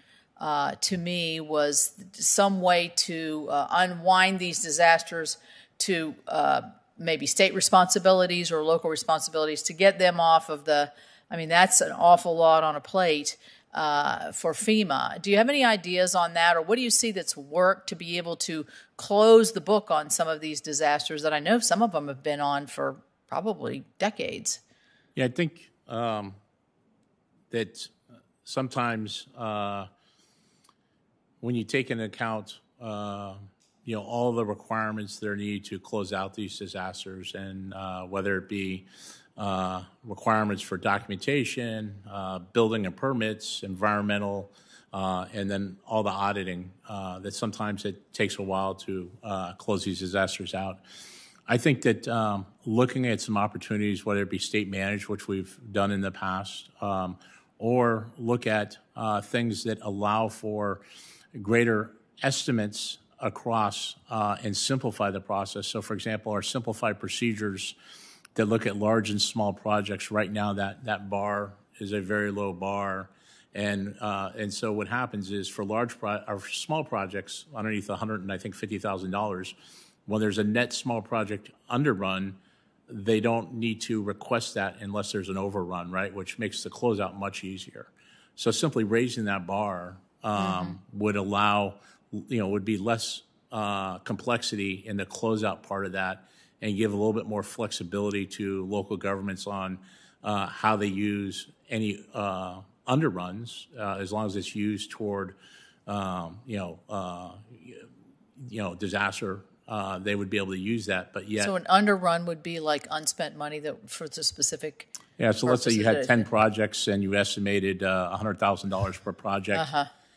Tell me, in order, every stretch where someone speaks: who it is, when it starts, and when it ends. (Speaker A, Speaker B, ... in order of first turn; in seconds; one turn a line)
Speaker A: 0.4-24.6
Speaker B: 25.1-26.4
Speaker B: 27.5-29.9
Speaker B: 31.4-50.8
Speaker B: 51.5-60.8
Speaker B: 61.3-67.8
Speaker B: 68.3-79.5
Speaker B: 80.0-105.3
Speaker A: 90.4-90.7
Speaker B: 105.9-107.8
Speaker B: 108.4-111.5
Speaker A: 111.4-114.9
Speaker B: 115.2-119.7
Speaker A: 115.5-116.2
Speaker A: 119.5-119.9